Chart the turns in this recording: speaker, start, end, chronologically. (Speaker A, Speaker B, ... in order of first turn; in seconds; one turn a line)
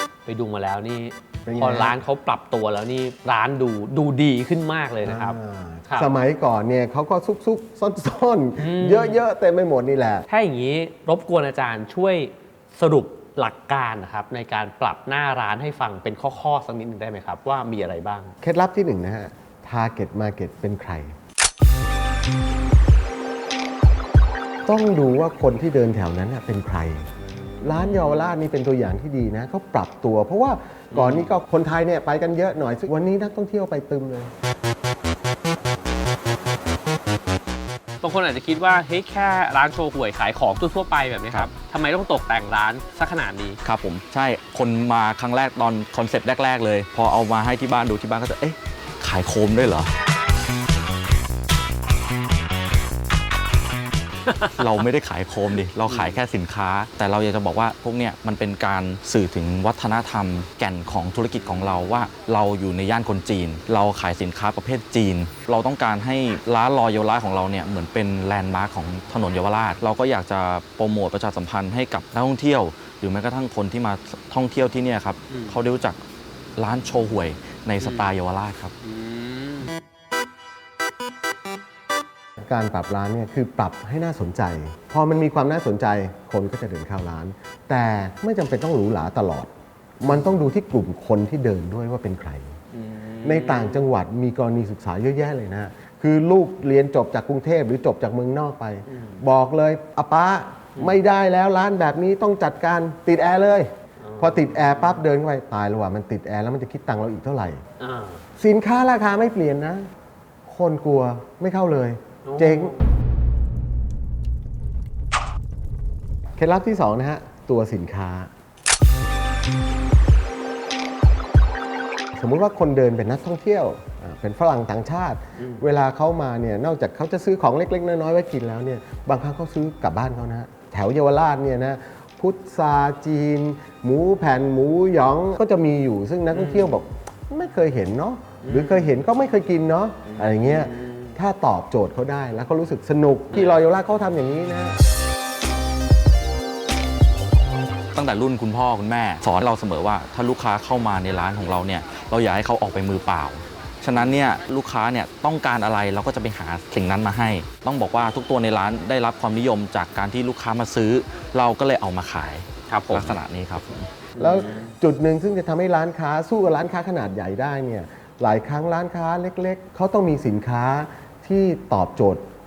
Speaker A: 0.2-5.4
Speaker B: 1.4-2.0
Speaker B: 5.0-10.2
Speaker A: 8.6-9.2
Speaker A: 10.3-18.3
Speaker B: 18.4-21.1
Speaker B: 24.6-27.1
Speaker A: 27.6-28.3
Speaker B: 27.6-34.3
Speaker A: 30.9-31.3
Speaker A: 38.0-43.6
Speaker C: 43.6-49.9
Speaker A: 54.3-54.7
Speaker C: 54.6-76.0
Speaker A: 55.9-56.2
Speaker A: 61.4-62.0
Speaker A: 75.3-75.6
Speaker C: 76.5-78.7
Speaker A: 77.8-78.1
Speaker A: 78.8-79.7
Speaker B: 82.4-92.5
Speaker A: 92.7-93.9
Speaker B: 93.2-107.6
Speaker A: 98.8-99.2
Speaker A: 104.0-105.0
Speaker A: 107.8-108.2
Speaker B: 108.4-109.9
Speaker B: 110.5-112.8
Speaker A: 112.2-112.8
Speaker B: 116.4-118.3
Speaker B: 122.2-144.8
Speaker A: 125.4-125.6
Speaker A: 136.3-136.8
Speaker A: 138.4-138.9
Speaker A: 140.1-141.2
Speaker C: 147.9-163.9
Speaker A: 162.7-163.2
Speaker A: 164.2-164.7
Speaker B: 164.2-172.2